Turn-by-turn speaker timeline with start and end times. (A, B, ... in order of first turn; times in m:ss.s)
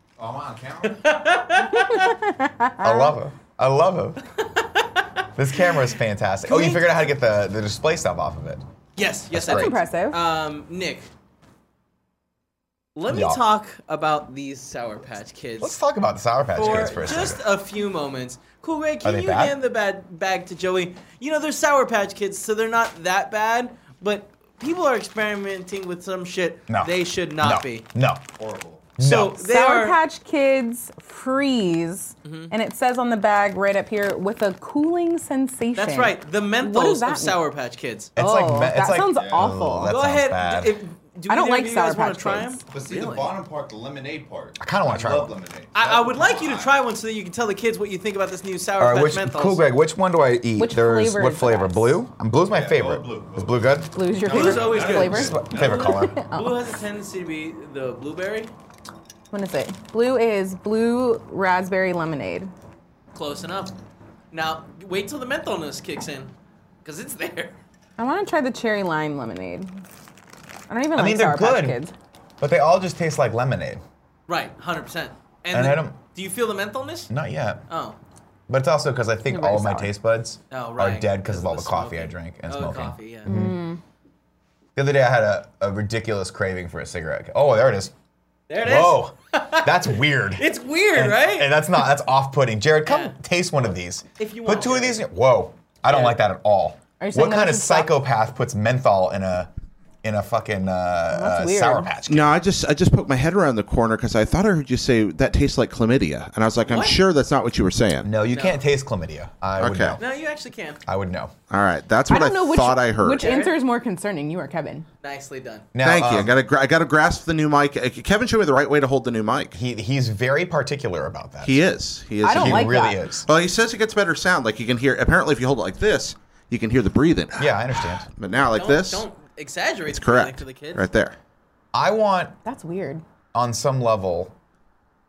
0:00.2-0:01.1 A
0:00.8-0:02.1 B
0:01.8-0:03.1 C
0:02.8-0:04.2 D
0:04.4-0:05.2 B
0:05.3-0:08.6 D
0:06.4-0:06.9 B
0:09.0-0:11.1 B
0:09.3-0:09.8 D
0:09.4-0:10.2 C
0:13.0-0:15.8 B
0:13.1-0:13.4 D
0:15.6-0:17.4 D
0:16.6-0:27.9 B
0:19.0-0:19.6 D
0:26.7-0:28.2 D
0:28.4-0:28.9 A
0:29.0-0:29.4 D
0:29.0-0:30.0 B
0:29.4-0:37.4 C
0:32.2-0:32.5 B
0:35.8-0:38.1 B
0:38.2-0:40.8 D
0:38.2-0:39.9 C
0:39.0-0:39.6 A
0:39.9-0:43.3 B
0:41.3-0:42.6 C
0:42.7-0:46.8 A
0:44.6-0:45.4 D
0:45.7-0:49.7 B
0:48.8-0:56.2 D
0:50.6-0:52.0 C
0:52.5-0:53.5 A
0:53.9-0:56.7 C
0:54.2-0:56.0 A
0:54.2-0:58.5 B
0:59.3-1:02.5 C
1:03.1-1:03.7 B
1:04.3-1:06.3 B
1:06.8-1:07.6 B
1:08.0-1:09.7 C
1:10.7-1:11.9 C
1:10.9-1:11.8 D
1:12.4-1:13.8 D
1:14.3-1:17.1 B
1:15.5-1:16.0 D
1:17.1-1:17.6 D
1:17.7-1:18.0 B
1:18.5-1:23.6 D
1:19.3-1:19.9 C
1:20.5-1:23.3 B
1:23.2-1:23.8 C
1:24.8-1:27.9 D
1:28.5-1:31.5 B
1:28.6-1:39.5 D
1:32.8-1:33.1 B
1:34.2-1:35.0 B
1:35.9-1:36.2 B
1:37.0-1:37.9 C
1:40.0-1:42.4 D
1:41.1-1:41.9 C
1:42.1-1:48.1 E
1:46.6-1:47.0 B
1:48.0-1:50.0 D
1:48.3-1:48.6 B
1:49.6-1:50.0 E
1:50.0-1:50.8 B
1:50.8-1:51.3 D
1:51.5-1:53.3 E
1:52.1-1:54.8 C
1:53.1-1:53.6 B
1:55.0-1:55.7 B
1:55.7-1:56.3 D
1:55.8-1:59.5 E
1:59.5-2:01.6 D
2:01.4-2:09.0 E
2:02.2-2:03.0 C
2:02.3-2:03.3 D
2:07.4-2:08.1 D
2:08.5-2:10.9 B
2:09.9-2:11.1 E
2:11.7-2:12.4 D
2:12.4-2:13.0 C
2:13.3-2:14.3 D